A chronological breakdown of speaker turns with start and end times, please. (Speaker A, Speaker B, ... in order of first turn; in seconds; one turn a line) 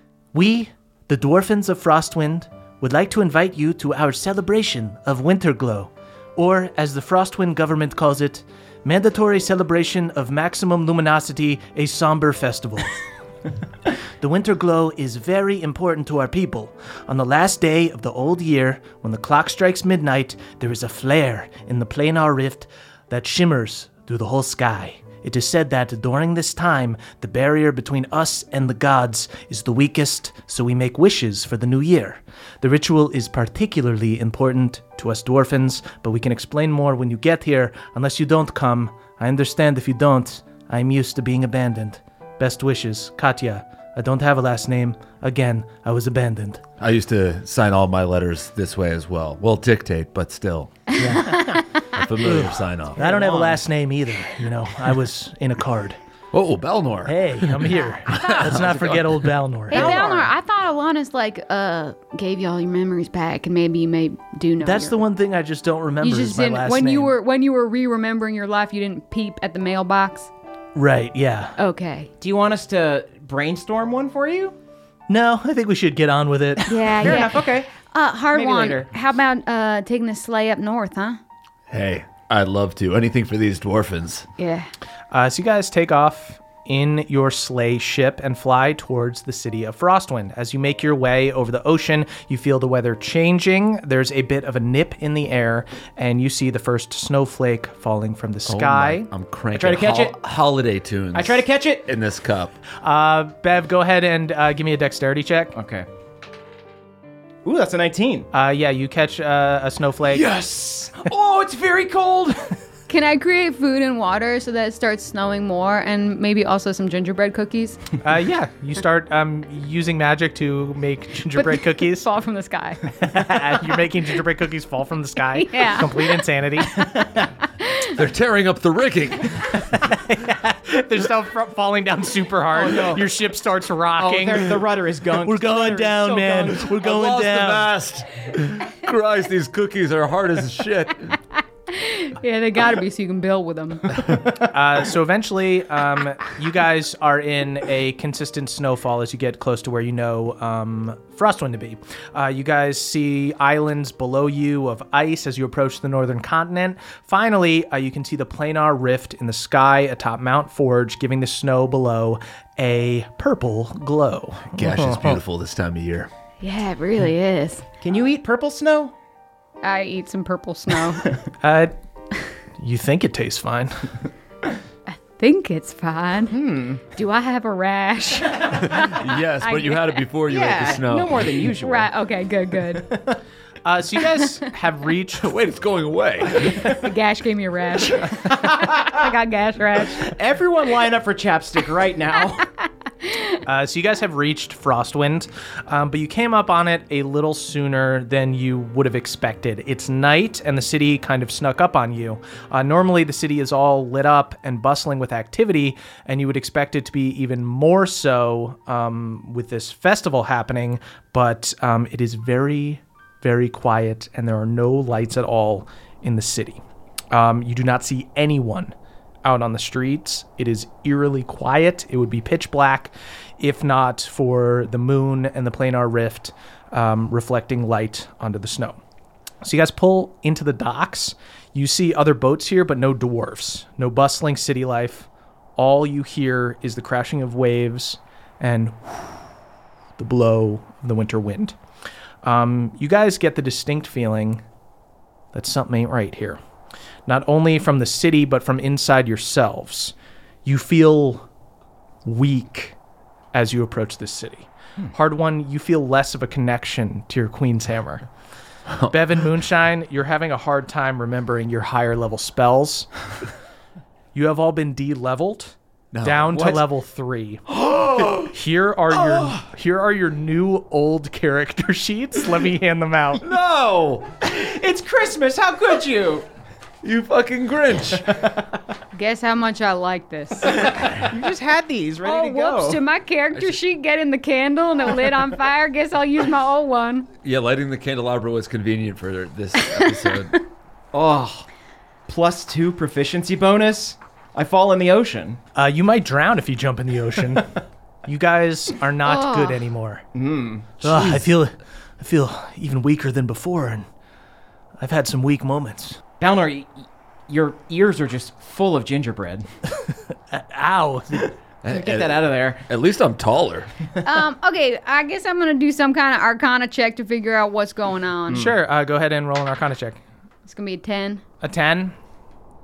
Speaker A: 0.3-12.9
Speaker A: 14.2-46.6
Speaker B: 46.8-50.8
Speaker A: 51.0-51.6
Speaker C: 51.2-51.9
Speaker B: 51.9-53.0
Speaker A: 52.2-56.0
Speaker D: 53.0-53.6
Speaker B: 56.3-59.2
Speaker A: 57.0-60.0
Speaker C: 59.7-65.0
Speaker D: 59.7-60.3
Speaker A: 64.6-67.1
Speaker C: 66.0-70.3
Speaker A: 70.8-71.5
Speaker C: 71.6-72.1
Speaker D: 72.2-74.5
Speaker A: 75.1-76.8
Speaker C: 76.7-81.2
Speaker D: 77.0-77.7
Speaker D: 78.3-78.9
Speaker B: 81.7-84.3
Speaker C: 84.4-84.7
Speaker A: 85.1-99.1
Speaker B: 98.5-102.6
Speaker D: 99.5-100.2
Speaker D: 101.1-101.9
Speaker A: 102.8-105.6
Speaker D: 105.5-105.9
Speaker D: 107.4-108.3
Speaker A: 108.3-110.3
Speaker D: 110.1-112.5
Speaker C: 112.9-117.8
Speaker A: 118.0-122.1
Speaker C: 121.3-122.9
Speaker A: 123.0-127.2
Speaker C: 125.3-126.0
Speaker B: 128.0-129.6
Speaker A: 129.7-134.7
Speaker D: 132.5-133.1
Speaker D: 134.0-136.7
Speaker A: 135.2-137.8
Speaker B: 136.8-141.2
Speaker C: 141.7-143.9
Speaker A: 144.2-165.2
Speaker B: 164.5-166.1
Speaker C: 166.4-167.7
Speaker D: 167.8-168.9
Speaker C: 169.6-171.0
Speaker A: 171.4-171.7
Speaker A: 172.6-173.9
Speaker C: 174.9-176.4
Speaker D: 176.3-176.8
Speaker C: 176.9-180.1
Speaker B: 178.6-181.5
Speaker D: 180.3-181.9
Speaker C: 181.6-182.9
Speaker A: 183.7-185.3
Speaker B: 185.2-186.7
Speaker C: 186.6-190.1
Speaker D: 188.4-188.9
Speaker D: 190.1-192.5
Speaker A: 193.4-218.7
Speaker A: 219.2-228.8
Speaker A: 229.4-239.2
Speaker A: 240.0-241.6
Speaker A: 242.2-244.4
Speaker A: 245.3-246.4
Speaker A: 247.1-249.9
Speaker A: 250.4-251.3
Speaker A: 252.1-252.8
Speaker A: 253.3-258.1
Speaker A: 258.9-262.9
Speaker A: 264.1-267.4
Speaker B: 265.9-266.6
Speaker B: 267.6-268.3
Speaker A: 268.3-273.3
Speaker B: 273.2-274.1
Speaker D: 274.2-276.2
Speaker B: 276.8-278.1
Speaker C: 278.9-280.6
Speaker D: 280.7-282.8
Speaker C: 282.0-287.1
Speaker B: 287.2-290.3
Speaker C: 289.6-290.2
Speaker D: 290.9-291.5
Speaker D: 292.1-295.4
Speaker A: 295.6-297.5
Speaker A: 298.1-300.1
Speaker C: 299.0-299.6
Speaker D: 300.1-300.8
Speaker A: 300.8-303.9
Speaker B: 300.9-301.2
Speaker A: 304.8-306.0
Speaker D: 306.2-309.5
Speaker A: 310.3-311.3
Speaker B: 311.6-313.7
Speaker D: 311.7-312.6
Speaker C: 314.0-318.5
Speaker A: 318.3-320.0
Speaker C: 320.5-321.2
Speaker A: 321.4-321.9